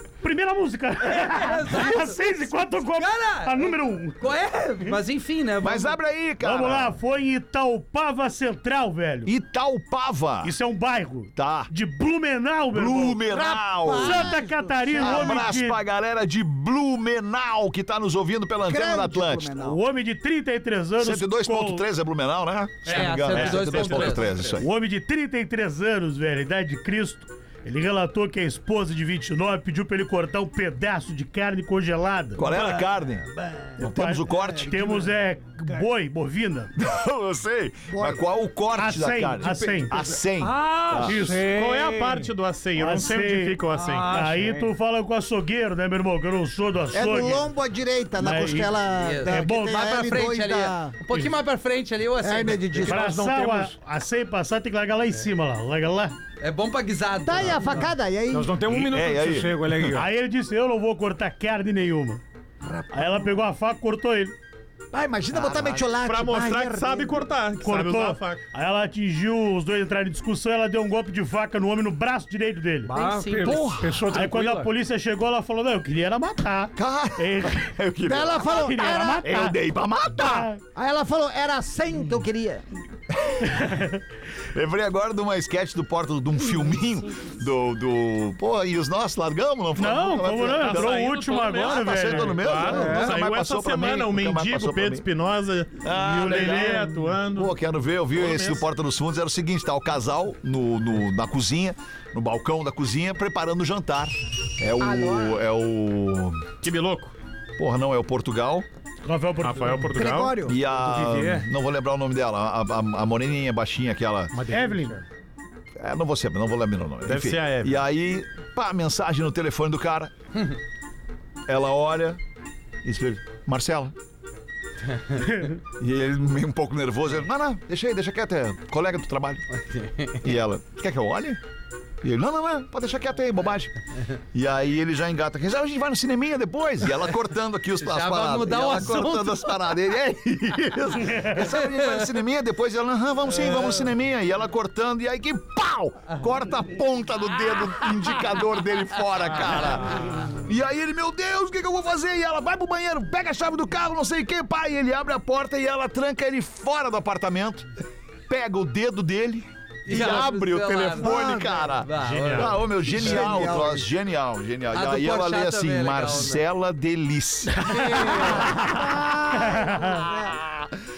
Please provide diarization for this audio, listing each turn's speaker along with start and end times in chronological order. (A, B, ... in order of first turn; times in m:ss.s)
0:00.2-0:04.2 A
0:01.0-0:06.0 B
0:05.6-0:07.0 C
0:06.4-0:09.3 A
0:09.2-0:10.5 C
0:10.4-0:13.2 A
0:11.4-0:11.7 C
0:12.7-0:14.3 C
0:13.3-0:15.5 D
0:13.9-0:15.8 A
0:15.0-0:19.5 C
0:18.6-0:19.8 D
0:19.6-0:21.8 A
0:21.0-0:24.7 C
0:22.8-0:24.4 E
0:22.8-0:24.6 B
0:24.6-0:32.5 A
0:32.4-0:33.2 C
0:32.4-0:33.7 F
0:33.8-0:36.7 A
0:33.8-0:34.9 C
0:36.8-0:41.2 C
0:37.9-0:38.2 D
0:38.8-0:40.1 A
0:40.4-0:42.3 F
0:41.0-0:41.4 A
0:41.4-0:44.2 E
0:42.8-0:47.5 A
0:43.7-0:44.7 F
0:46.9-0:51.0 D
0:48.2-0:50.0 A
0:49.0-0:52.9 B
0:52.2-0:53.0 D
0:52.8-0:53.8 F
0:52.9-0:56.1 A
0:56.4-0:57.8 B
0:57.2-0:58.6 D
0:58.3-1:00.1 F
0:58.7-1:00.0 C
0:59.9-1:02.2 A
1:02.6-1:03.4 D
1:02.9-1:04.3 A
1:04.9-1:07.2 D
1:05.3-1:05.8 C
1:06.0-1:08.4 E
1:07.6-1:12.9 A
1:12.8-1:14.7 F
1:12.9-1:13.7 B
1:13.4-1:13.8 C
1:14.1-1:17.7 A
1:16.8-1:18.7 C
1:18.0-1:19.5 D
1:18.4-1:19.6 A
1:19.2-1:20.5 C
1:20.1-1:20.6 A
1:20.6-1:22.6 D
1:23.1-1:23.4 C
1:23.4-1:24.0 A
1:24.5-1:31.0 C
1:29.8-1:33.0 A
1:30.6-1:37.6 E
1:31.6-1:35.0 C
1:32.8-1:33.0 F
1:35.8-1:46.5 C
1:36.0-1:36.9 A
1:38.1-1:38.7 E
1:44.8-1:45.4 D
1:46.6-1:47.1 E
1:47.6-1:48.6 C
1:49.0-1:49.9 A
1:49.4-1:50.4 E
1:49.9-1:50.6 D
1:50.4-1:54.3 C
1:50.7-1:51.5 F
1:54.3-1:55.0 F
1:54.5-1:55.0 A
1:55.8-2:00.1 C
1:57.0-1:57.8 E
2:01.5-2:02.2 C
2:02.8-2:03.9 C
2:05.2-2:05.4 A
2:05.8-2:09.4 C
2:09.6-2:10.2 B
2:10.2-2:11.4 C
2:12.0-2:13.7 C
2:14.3-2:37.7 C
2:17.8-2:19.6 B
2:21.4-2:22.1 B
2:38.3-2:49.0 C
2:39.8-2:43.6 B
2:41.0-2:41.7 D
2:42.0-2:42.6 E
2:42.8-2:43.9 D
2:44.7-2:46.4 B
2:47.7-2:48.4 B
2:48.0-2:50.4 D
2:49.4-2:50.0 A
2:50.2-2:50.7 C